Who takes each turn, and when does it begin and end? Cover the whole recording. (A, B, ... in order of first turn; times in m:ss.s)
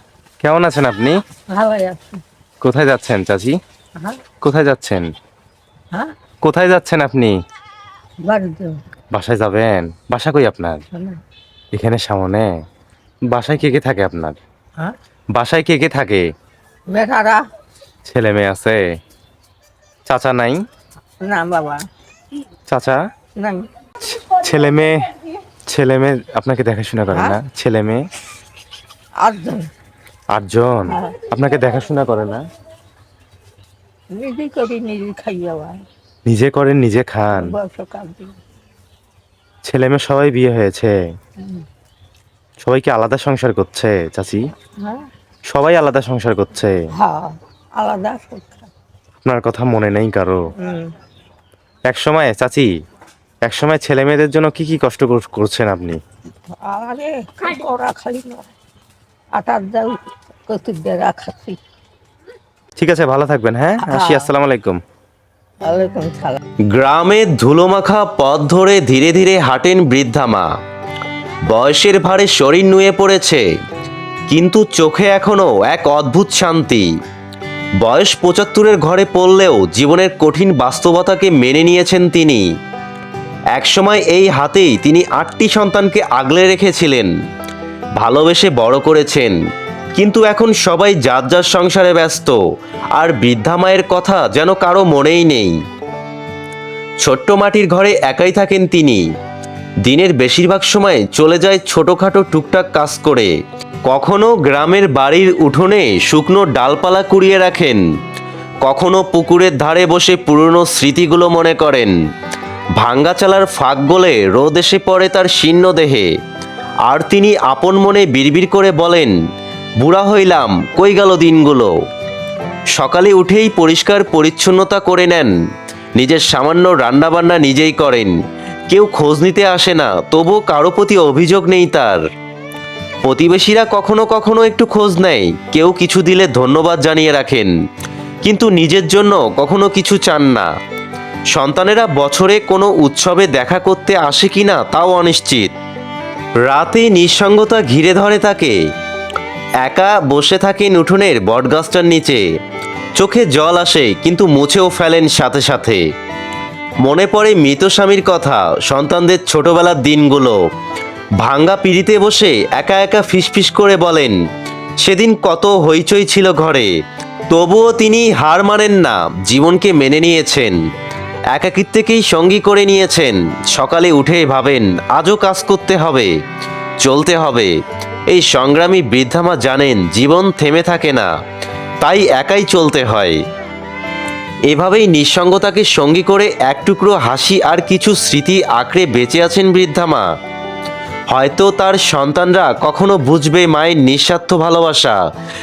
0:00.4-0:01.2 A
0:01.5-0:02.2 B
0:02.6-0:03.6 A
0:04.4-0:05.1 A
0:06.4-0:07.4 A
0:08.2-0:08.7 B
0:09.1-0:10.8 A
0:11.7-0:12.5 A
0:13.3-0:14.4 A
0:15.3-0:16.2 A
0:16.9-0:17.4 B
0:18.0-0:18.8 A
0:20.1-0:20.6 A
0:21.2-0:21.8 B
0:22.7-0:23.0 A
0:23.4-0:23.6 B
0:24.0-0:25.0 A
0:25.7-0:28.0 A
0:27.1-0:27.4 B
0:29.2-0:29.6 B
0:30.3-0:32.4 A
0:30.9-0:31.1 B
0:34.1-0:35.8 B
0:36.3-0:37.5 A
0:37.3-0:38.3 B
0:39.6-0:40.9 A
0:42.6-0:44.4 A
0:44.8-0:45.1 B
0:45.5-0:46.7 A
0:47.0-0:48.7 B
0:49.2-0:50.4 A
0:50.6-0:50.9 B
0:51.9-0:52.7 A
0:53.4-0:56.0 A
0:56.6-0:58.5 B
0:59.4-1:00.0 B
1:00.5-1:01.6 B
1:02.8-1:04.8 A
1:03.8-1:04.3 B
1:05.6-1:06.4 B
1:06.7-1:10.5 C
1:11.5-1:13.4 C
1:14.3-1:16.9 C
1:17.8-1:22.5 C
1:23.5-1:27.1 C
1:28.0-1:29.4 C
1:30.0-1:32.4 C
1:33.0-1:35.6 C
1:37.0-1:39.1 C
1:39.8-1:43.3 C
1:43.8-1:47.8 C
1:48.6-1:51.9 C
1:52.8-1:56.1 C
1:56.9-1:59.1 C
1:59.8-2:01.7 C
2:02.8-2:05.3 C
2:06.0-2:08.2 C
2:08.7-2:12.0 C
2:13.0-2:17.5 C
2:18.2-2:20.5 C
2:21.3-2:25.5 C
2:26.4-2:28.6 C
2:29.6-2:32.2 C
2:33.0-2:35.8 C
2:36.8-2:40.4 C
2:41.2-2:44.2 C
2:44.8-2:46.7 C
2:47.3-2:50.6 C
2:51.3-2:56.1 C
2:56.8-2:57.6 C
2:58.1-3:01.1 C
3:01.8-3:03.2 C
3:04.5-3:10.1 C
3:11.1-3:15.0 C